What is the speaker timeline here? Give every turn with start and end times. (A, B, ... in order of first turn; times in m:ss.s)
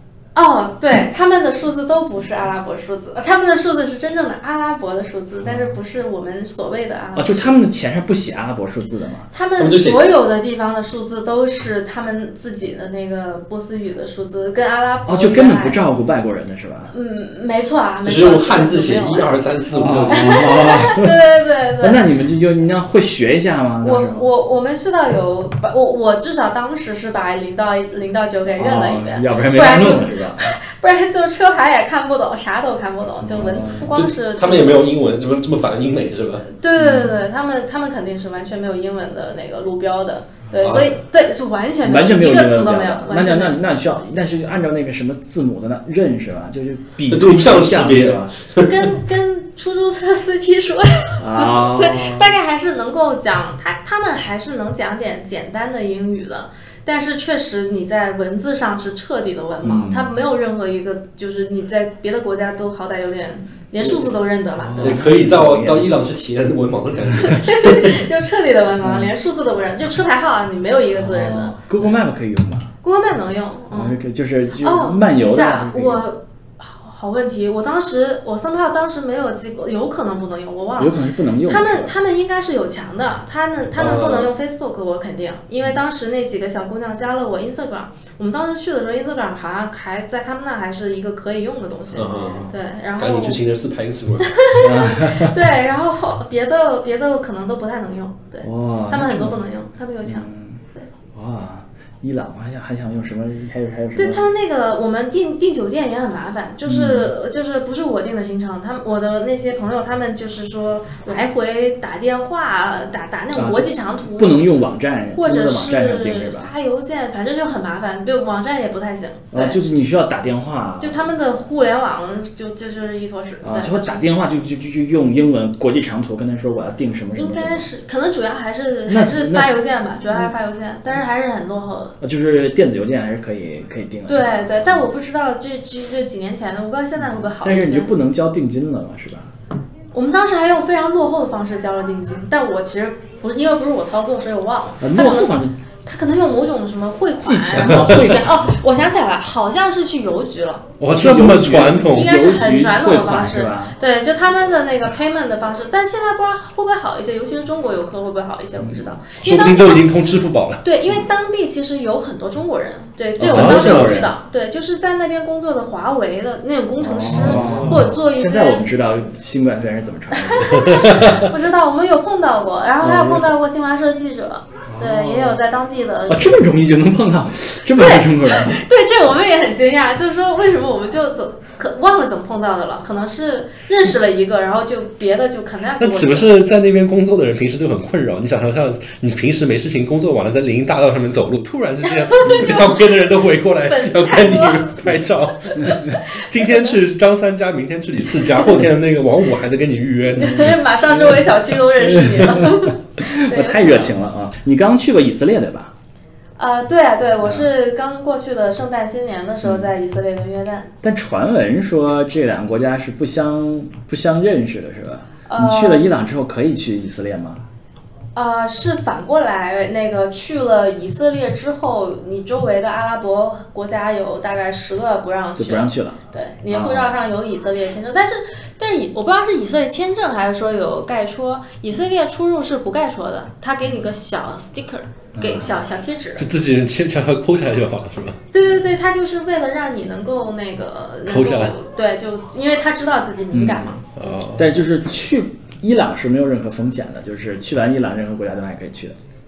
0:00.4-0:07.7 A
0:05.4-0:05.8 B
0:07.2-0:09.3 B
0:09.3-0:15.8 A
0:09.6-0:10.1 C
0:15.1-0:16.9 B
0:16.9-0:19.3 A
0:18.0-0:20.7 C
0:19.8-0:21.1 B
0:20.1-0:22.0 A
0:21.8-0:24.3 B
0:23.8-0:34.9 A
0:28.5-0:30.5 B
0:33.2-0:33.9 B
0:33.9-0:36.5 C
0:36.4-0:43.6 A
0:36.8-0:37.2 B
0:40.6-0:41.0 C
0:41.8-0:48.4 B
0:47.1-0:48.9 C
0:48.6-1:05.1 A
0:51.2-0:52.3 B
0:59.6-1:00.1 B
1:04.6-1:05.9 B
1:04.8-1:08.0 C
1:07.2-1:11.6 A
1:08.8-1:09.1 B
1:11.0-1:12.7 B
1:12.8-1:14.0 A
1:13.7-1:16.0 B
1:14.6-1:33.4 A
1:20.8-1:21.9 B
1:23.8-1:24.3 C
1:32.0-1:34.3 C
1:34.2-1:40.9 A
1:34.6-1:35.4 B
1:38.4-1:39.4 B
1:40.0-1:40.6 B
1:41.1-1:44.3 B
1:44.0-1:54.4 A
1:46.6-1:47.1 B
1:53.3-1:56.5 B
1:55.1-1:59.6 A
1:59.3-2:01.2 B
2:00.8-2:04.0 A
2:03.4-2:07.7 B
2:07.2-2:12.0 A
2:08.9-2:09.5 B
2:12.0-2:14.9 B
2:14.1-2:17.9 A
2:17.0-2:19.3 B
2:19.9-2:30.7 A
2:24.8-2:25.6 B
2:27.2-2:28.6 B
2:27.6-2:28.1 C
2:30.8-2:32.3 C
2:30.9-2:33.8 B
2:31.9-2:39.9 A
2:38.6-2:39.0 B
2:39.2-2:40.7 C
2:40.6-2:48.7 A
2:43.2-2:44.1 B
2:43.3-2:44.0 C
2:46.8-2:51.3 B
2:47.1-2:47.9 C
2:50.1-2:56.4 A
2:50.6-2:51.2 C
2:52.8-2:53.4 B
2:54.7-2:55.4 B
2:56.1-2:58.6 B
2:57.7-3:06.4 A
3:05.8-3:21.0 C
3:11.9-3:12.8 A
3:13.6-3:14.9 A
3:15.4-3:16.7 A
3:20.2-3:23.9 A
3:20.2-3:20.5 B
3:21.8-3:25.7 B
3:26.4-3:30.7 A
3:29.4-3:29.7 B
3:30.8-3:37.4 B
3:35.3-3:35.9 A
3:38.2-3:56.3 A
3:45.4-3:46.0 B
3:46.5-3:47.0 B
3:55.2-3:55.5 B
3:56.2-3:58.2 C
3:58.3-4:03.9 A
4:01.1-4:01.6 C
4:03.3-4:03.8 B
4:03.9-4:04.5 C
4:04.4-4:09.0 B